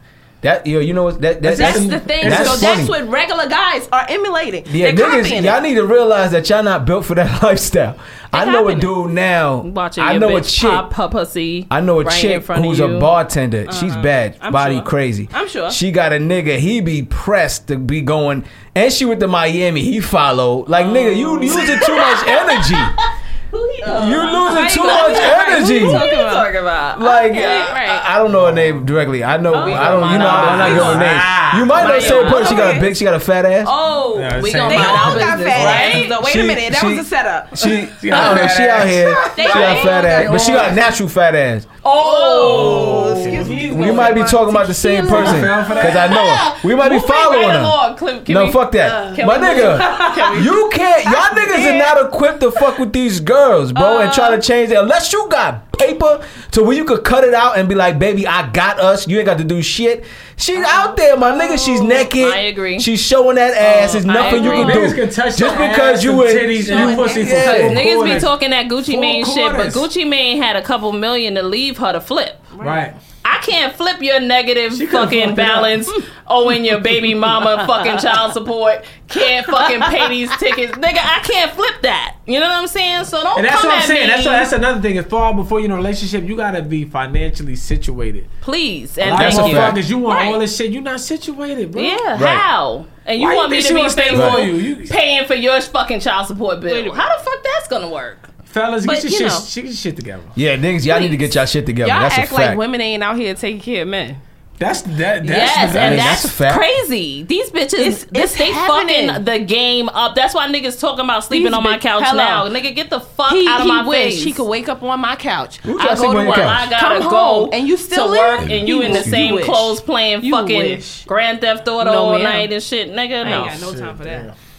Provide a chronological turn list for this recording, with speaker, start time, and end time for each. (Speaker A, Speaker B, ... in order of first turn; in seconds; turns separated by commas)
Speaker A: 0.4-2.9, Speaker B: 1.4-2.8, Speaker C: 1.5-5.6, Speaker A: 4.7-10.9, Speaker D: 8.3-8.9, Speaker D: 9.6-13.1, Speaker A: 11.7-23.0, Speaker C: 13.7-15.8, Speaker C: 20.8-22.0, Speaker D: 21.4-27.8, Speaker C: 23.8-26.5, Speaker A: 23.8-26.1, Speaker A: 26.9-33.7, Speaker C: 27.3-28.1, Speaker B: 28.2-28.9, Speaker D: 29.5-31.1, Speaker B: 29.5-32.4, Speaker C: 29.6-31.0, Speaker D: 31.7-32.9, Speaker C: 31.8-32.9, Speaker D: 33.6-36.2, Speaker B: 34.1-36.1, Speaker C: 34.6-37.7, Speaker A: 36.0-41.7, Speaker B: 37.9-40.8, Speaker C: 39.0-40.6, Speaker D: 39.4-40.3, Speaker D: 41.8-44.2, Speaker C: 41.9-46.0, Speaker B: 42.4-44.3, Speaker A: 43.4-67.8, Speaker B: 45.0-46.1, Speaker D: 45.2-50.5, Speaker C: 48.8-51.9, Speaker D: 51.5-51.9, Speaker C: 53.8-54.4, Speaker D: 61.4-62.9, Speaker D: 63.6-64.9, Speaker C: 64.2-64.8, Speaker B: 64.5-69.9, Speaker C: 66.7-67.7, Speaker D: 67.3-72.5, Speaker C: 72.5-72.9, Speaker B: 72.6-72.9, Speaker D: 73.2-84.5, Speaker B: 74.7-75.8, Speaker C: 79.2-80.1, Speaker B: 83.3-88.3, Speaker D: 88.4-90.4, Speaker B: 89.0-92.0, Speaker A: 89.1-89.8, Speaker D: 91.7-98.3, Speaker A: 92.1-92.5, Speaker B: 93.2-95.0, Speaker A: 94.1-94.5, Speaker C: 96.7-97.0, Speaker B: 98.5-100.3, Speaker C: 98.8-99.5, Speaker A: 100.3-102.6, Speaker C: 100.8-104.2, Speaker B: 104.6-106.2, Speaker D: 105.2-114.4, Speaker A: 105.7-106.6, Speaker C: 107.8-109.2, Speaker C: 111.3-112.5, Speaker C: 113.3-121.1, Speaker A: 115.6-116.7, Speaker D: 115.8-123.6, Speaker C: 121.8-122.5, Speaker C: 123.2-124.3, Speaker B: 123.5-124.3